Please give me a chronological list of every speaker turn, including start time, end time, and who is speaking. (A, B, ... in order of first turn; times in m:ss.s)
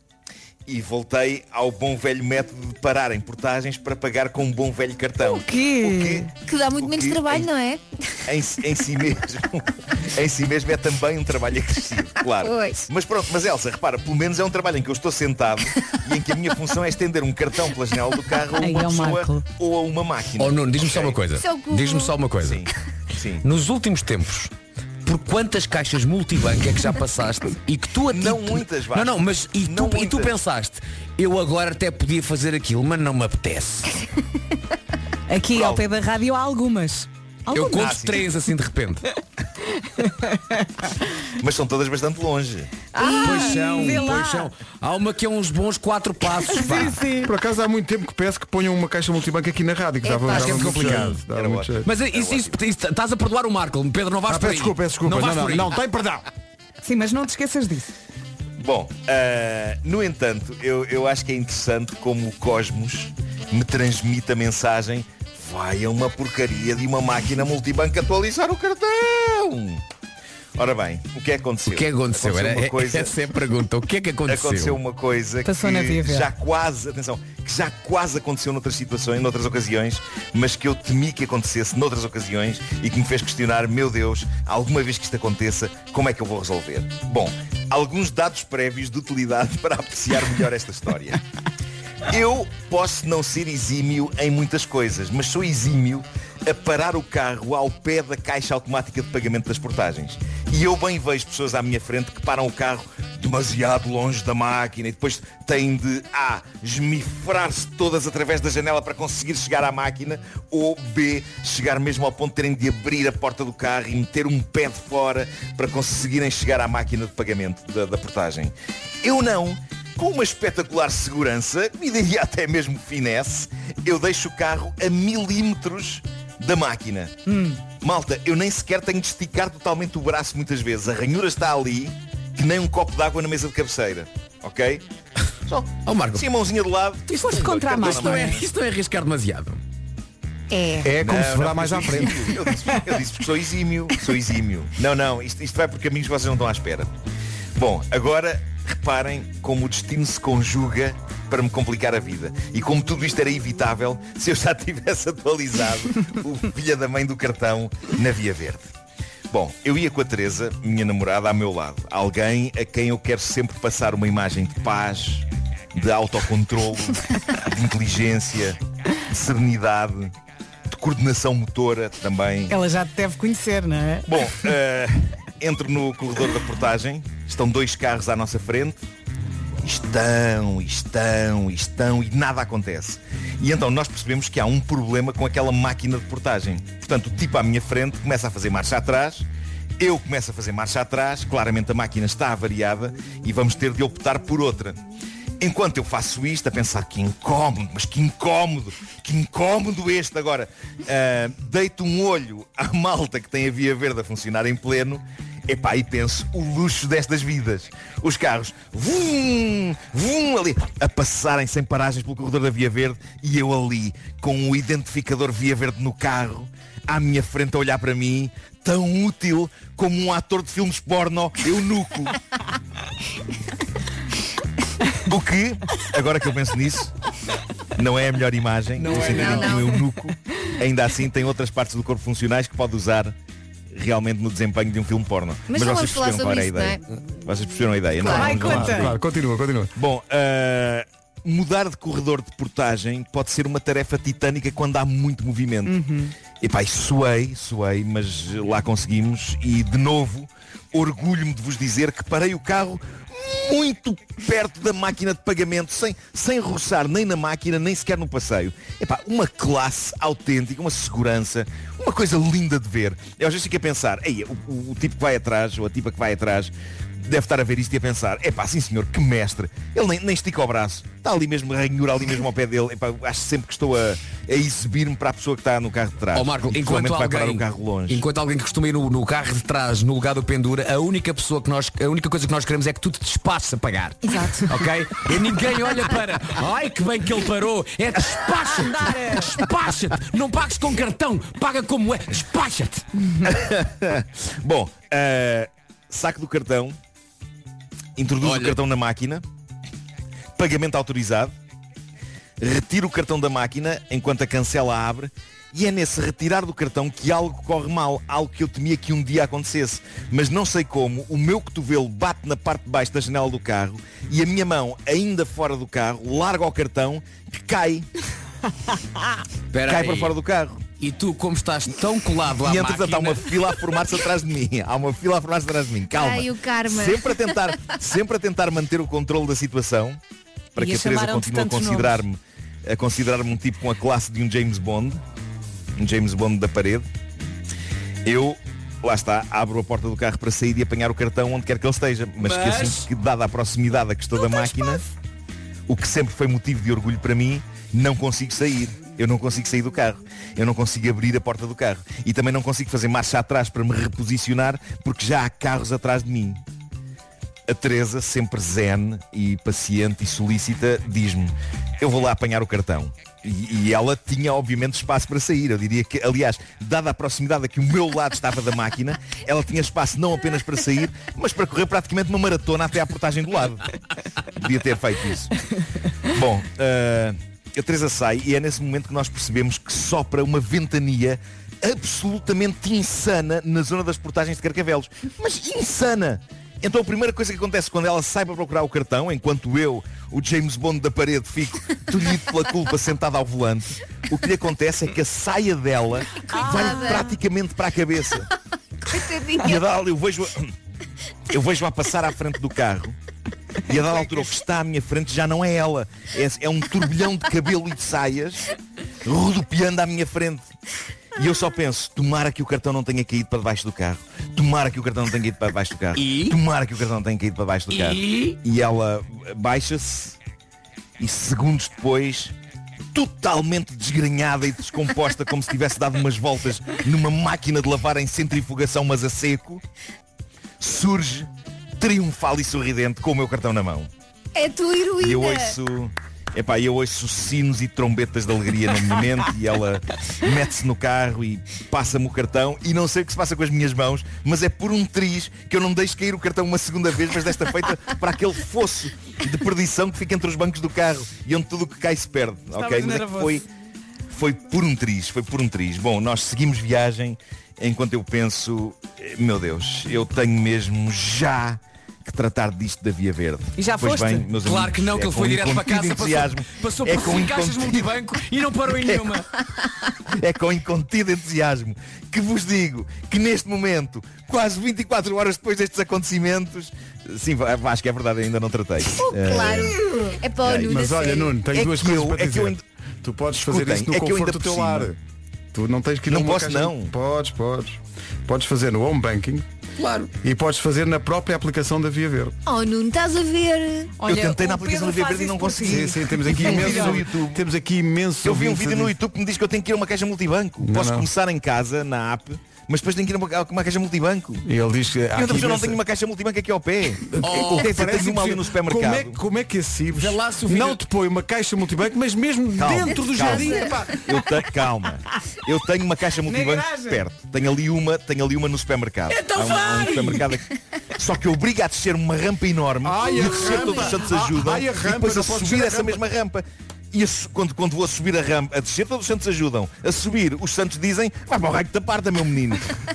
0:00.7-0:07.5 A
0:05.2-0:06.3 B
0:06.4-0:07.8 C
0:08.3-0:21.2 A
0:12.4-0:12.9 C
0:18.6-0:19.4 B
0:20.4-0:22.6 D
0:21.4-0:22.1 C
0:22.4-0:23.4 A
0:23.4-0:24.5 D
0:25.0-0:33.9 D
0:28.1-0:30.4 A
0:35.3-0:38.0 B
0:35.5-0:36.0 A
0:37.5-0:39.0 D
0:37.8-0:38.2 A
0:41.4-0:42.8 A
0:42.9-0:44.5 B
0:43.2-0:47.0 D
0:46.5-0:47.3 B
0:47.2-0:51.8 E
0:50.3-0:51.2 D
0:50.5-0:52.6 A
0:51.8-0:55.7 D
0:54.3-0:56.3 E
0:56.8-0:57.9 B
0:58.6-1:09.8 A
1:10.6-1:13.1 A
1:11.6-1:14.8 D
1:14.3-1:31.2 A
1:15.4-1:16.3 B
1:32.0-2:07.2 A
2:07.2-2:07.6 B
2:07.8-2:14.8 A
2:15.5-2:18.5 A
2:15.8-2:16.2 D
2:17.1-2:18.4 B
2:17.3-2:19.6 D
2:20.5-2:20.9 C
2:20.8-2:22.2 E
2:21.0-2:26.9 A
2:27.6-2:38.7 A
2:39.3-2:50.1 A
2:50.7-2:52.6 A
2:52.5-2:54.1 B
2:54.1-2:58.8 A
2:59.6-3:09.2 A
3:09.8-3:14.8 A
3:15.4-3:42.1 A
3:45.0-3:46.9 A
3:47.8-3:53.1 A
3:48.8-3:49.5 D
3:48.9-3:49.8 C
3:53.7-3:59.0 A
3:55.5-3:56.8 C
3:58.0-3:58.9 B
3:58.1-3:59.7 E
3:59.8-4:05.8 A
4:05.6-4:06.1 B
4:06.4-4:38.0 A
4:36.1-4:52.8 D
4:44.0-4:44.5 B
4:48.5-4:49.3 B
4:53.2-4:56.8 A
4:58.0-4:59.2 A
4:58.2-4:58.6 D
5:00.4-5:01.3 A
5:02.4-5:17.9 A
5:19.5-5:20.1 D
5:19.6-5:20.6 A
5:20.8-5:23.6 D
5:22.4-5:30.0 A
5:25.9-5:27.4 C
5:30.5-5:35.0 A
5:30.6-5:32.0 B
5:35.8-5:36.9 A
5:38.0-5:44.8 A
5:42.2-5:42.8 D
5:45.7-5:56.4 A
5:57.5-6:13.6 A
6:14.3-6:15.3 A
6:16.1-6:38.3 A
6:36.1-6:37.1 C
6:36.3-6:36.8 B
6:38.8-6:39.6 C
6:39.4-6:40.5 A
6:41.3-6:42.9 A
6:43.7-6:48.4 A
6:49.0-6:50.5 A
6:51.2-7:00.2 A
6:55.9-6:56.4 D
6:57.7-6:58.4 D
7:01.0-7:02.3 A
7:02.9-7:09.6 A
7:10.6-7:13.9 A
7:14.3-7:15.6 C
7:15.0-7:33.4 A
7:32.5-7:33.4 B
7:34.1-7:48.0 A
7:43.6-7:44.2 B
7:43.6-7:49.3 D
7:48.7-7:49.1 A
7:50.1-7:59.8 A
7:58.9-8:01.4 C
8:00.4-8:00.8 A
8:00.6-8:05.0 E
8:01.4-8:02.6 A
8:03.4-8:04.9 A
8:05.5-8:09.4 E
8:06.1-8:06.9 A
8:09.8-8:10.1 D
8:10.2-8:12.3 E
8:12.4-8:14.0 C
8:14.0-8:17.0 B
8:14.0-8:17.4 A
8:15.6-8:18.9 E
8:18.2-8:24.4 A
8:20.6-8:21.1 E
8:24.4-8:25.8 E
8:25.2-8:29.2 A
8:27.1-8:34.0 E
8:27.2-8:27.7 D
8:30.0-8:30.8 D
8:32.6-8:52.7 A
8:33.2-8:33.6 C
8:36.2-8:37.0 B
8:39.1-8:40.3 D
8:42.8-8:46.0 E
8:43.2-8:43.6 D